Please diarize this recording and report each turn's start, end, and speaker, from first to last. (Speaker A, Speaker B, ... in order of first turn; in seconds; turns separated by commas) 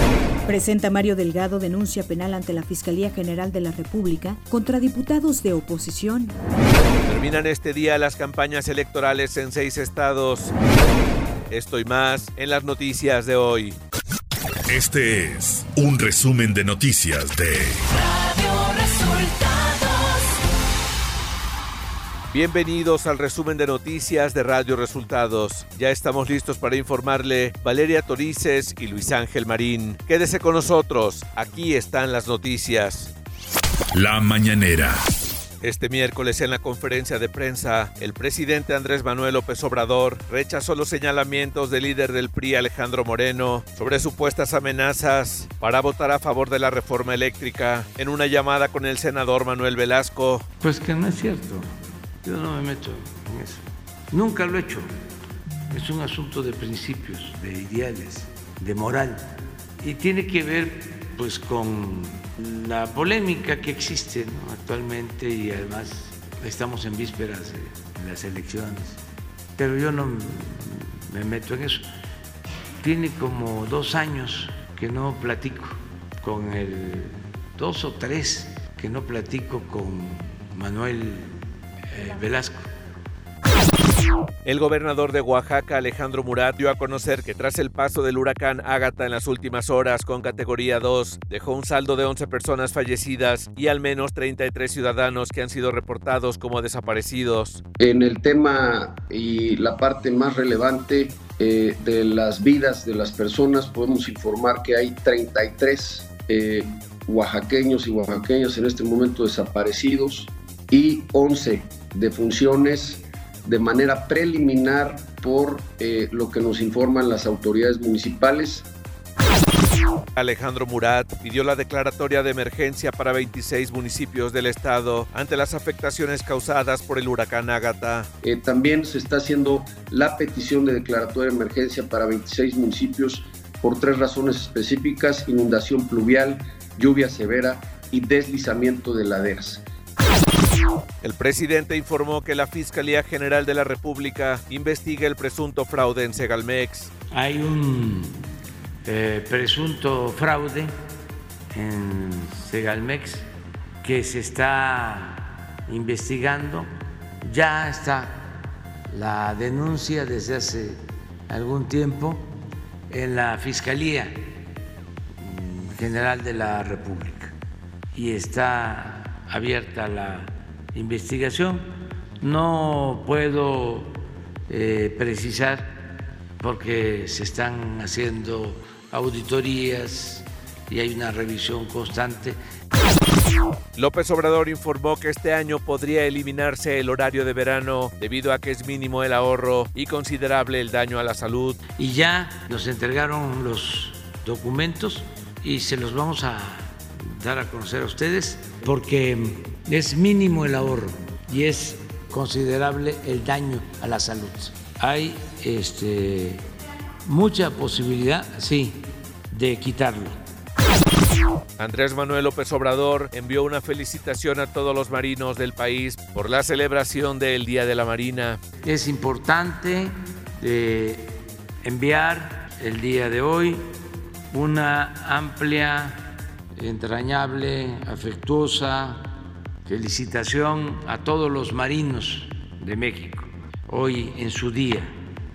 Speaker A: 0.5-6.4, Speaker B: 7.1-10.5, Speaker B: 11.5-13.8, Speaker C: 14.7-17.8, Speaker B: 22.3-33.1, Speaker C: 33.9-35.0, Speaker B: 35.6-50.4, Speaker D: 50.6-51.7, Speaker D: 52.2-54.9, Speaker D: 55.7-69.0, Speaker D: 69.6-71.9, Speaker D: 72.8-81.4, Speaker D: 81.9-82.6, Speaker B: 84.5-97.6, Speaker E: 97.8-118.7, Speaker B: 120.2-128.1, Speaker E: 128.2-139.6, Speaker B: 141.0-146.9, Speaker D: 147.1-148.2, Speaker D: 148.8-150.7, Speaker D: 151.5-153.3, Speaker D: 153.8-156.7, Speaker D: 157.2-162.3, Speaker D: 162.9-164.4, Speaker D: 165.2-167.3, Speaker D: 167.9-171.7, Speaker D: 172.2-175.7, Speaker D: 176.4-182.4, Speaker B: 183.8-191.6, Speaker D: 191.8-206.5, Speaker D: 207.1-210.2, Speaker B: 211.6-218.4, Speaker D: 218.6-223.7, Speaker D: 224.3-229.2, Speaker D: 229.7-234.9